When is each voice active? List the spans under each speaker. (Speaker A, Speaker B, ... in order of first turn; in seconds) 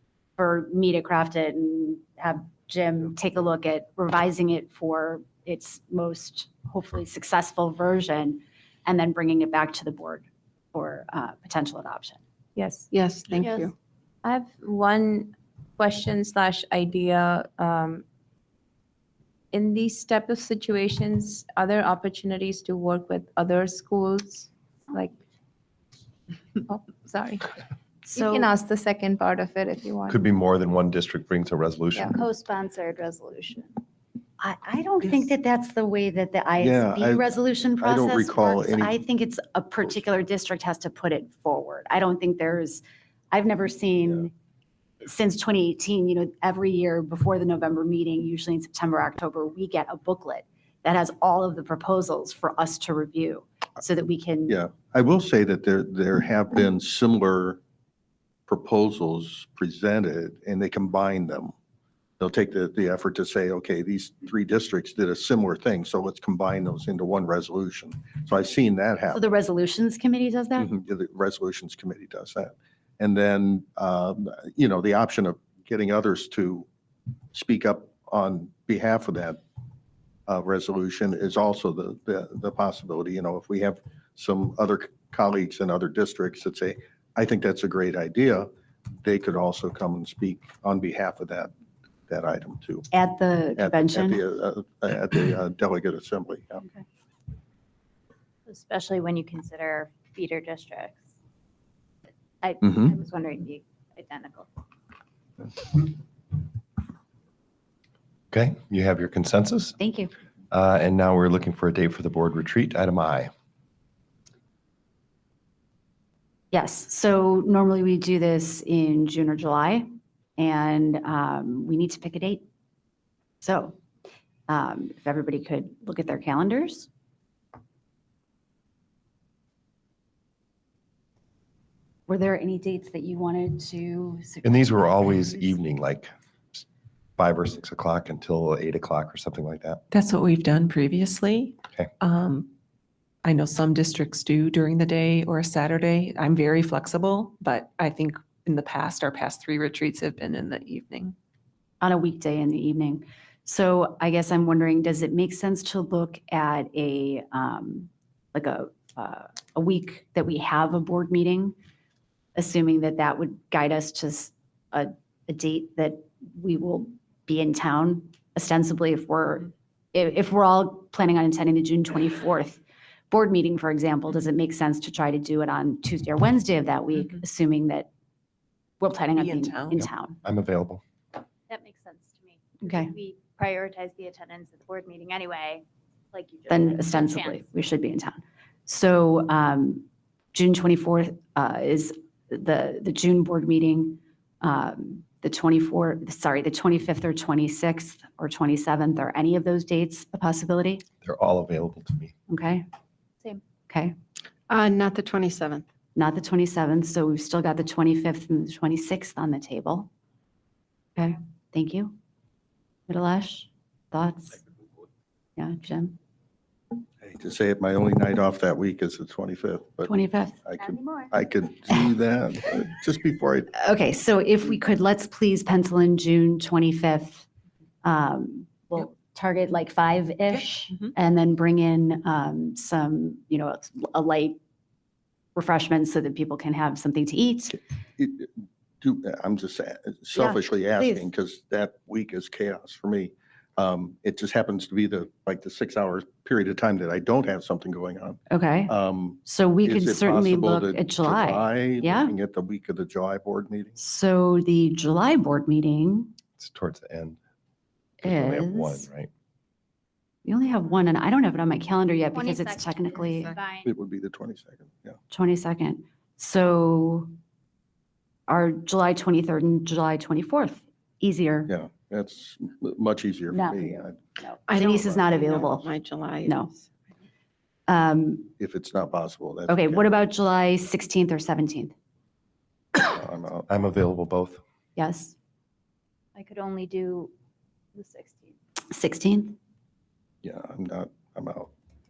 Speaker A: 0.4-12.2, 28.1-28.5, 34.4-44.3, 45.0-54.6, 69.1-70.7, 92.9-94.2, 109.8-110.1, 116.5-122.4, 123.4-123.8, 124.5-126.9, 132.1-135.6, 151.8-161.6, 162.3-177.9, 178.8-180.2, 182.6-182.9, 186.5-200.8, 202.3-202.7, 203.7-203.9, 206.0-209.9, 211.0-211.9, 212.9-214.4, 215.4-216.0, 219.9-220.4, 223.6-227.3, 227.8-234.4, 235.3-237.6, 240.1-241.1, 248.3-252.1, 253.8-256.1, 258.0-258.9, 260.2-263.4, 265.1-267.1, 268.3-271.5, 273.3-275.7, 276.2-276.5, 277.7-278.3, 279.5-281.7, 284.8-285.1, 288.7-289.4
Speaker B: 12.6-12.9, 14.2-18.0, 19.5-25.1, 26.7-27.5, 28.1-30.2
Speaker C: 12.9-13.7, 204.5-205.6, 274.5-276.5
Speaker D: 13.4-13.7, 32.1-33.7, 98.5-101.0, 102.4-104.5, 181.5-187.5, 220.6-221.1, 262.1-263.7, 286.2-287.1, 287.8-288.4
Speaker E: 30.1-32.2, 108.3-109.8, 110.5-113.3, 134.4-136.6, 137.2-139.8, 180.2-180.8, 201.0-202.1, 256.4-257.2, 258.0-259.1, 283.5-284.4
Speaker F: 36.6-37.3, 37.8-39.0, 54.5-57.6, 58.5-61.5, 62.2-69.2, 70.6-76.7, 77.3-79.4, 80.3-88.5, 89.0-91.5, 92.1-92.9, 93.6-96.6, 102.6-102.9, 217.0-223.6, 238.0-253.8, 263.6-265.0, 271.5-275.1, 278.4-279.9, 282.8-283.7, 290.2-291.5
Speaker G: 139.9-142.5, 143.2-151.2, 179.2-179.8, 230.3-230.9